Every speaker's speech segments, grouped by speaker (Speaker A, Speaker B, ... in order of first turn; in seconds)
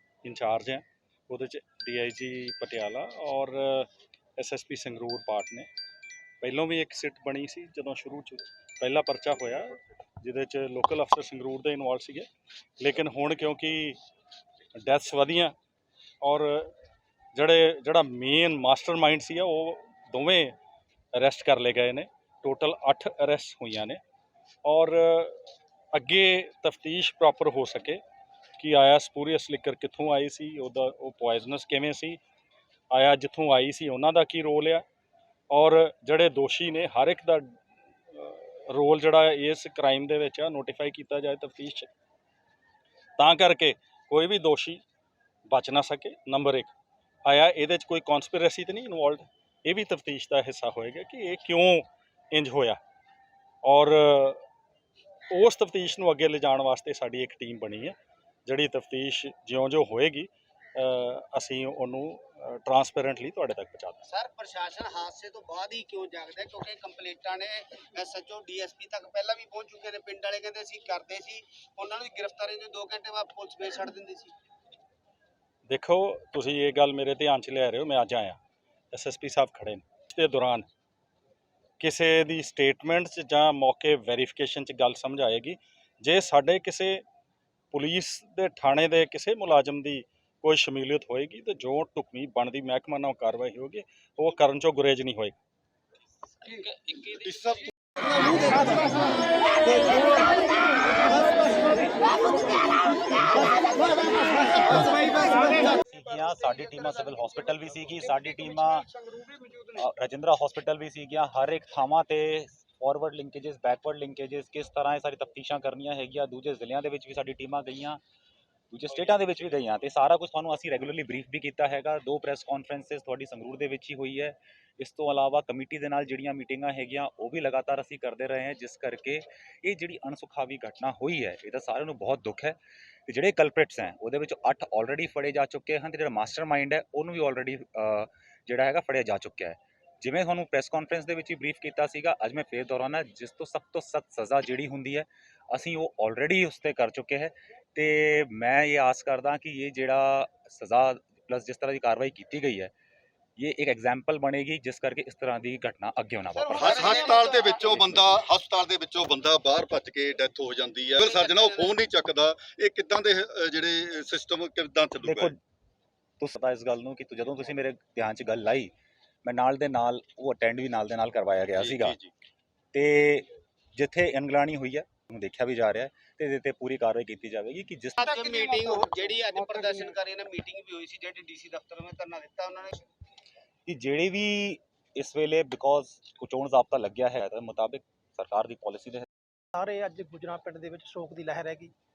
Speaker A: 0.2-5.7, 6.4-12.3, 12.8-14.0, 14.8-15.5, 16.2-16.7, 17.3-20.5, 21.1-24.0, 24.6-28.0, 28.6-32.2, 32.9-34.8, 35.5-37.5, 38.1-41.9, 43.2-44.8, 45.5-46.7, 47.2-52.8, 53.6-54.4, 55.3-57.9, 58.5-64.0, 75.7-78.4, 78.9-80.7, 81.8-87.0, 87.7-95.4
Speaker B: 64.0-74.3, 161.0-161.8, 178.0-182.8
Speaker C: 97.2-97.7, 156.6-165.3, 171.6-172.1
Speaker D: 105.8-108.9, 109.7-118.0, 118.7-152.7, 153.4-157.1, 157.7-158.1, 165.0-165.4, 166.2-168.7, 169.2-172.0, 172.7-178.1, 183.7-189.1
Speaker E: 189.5-191.7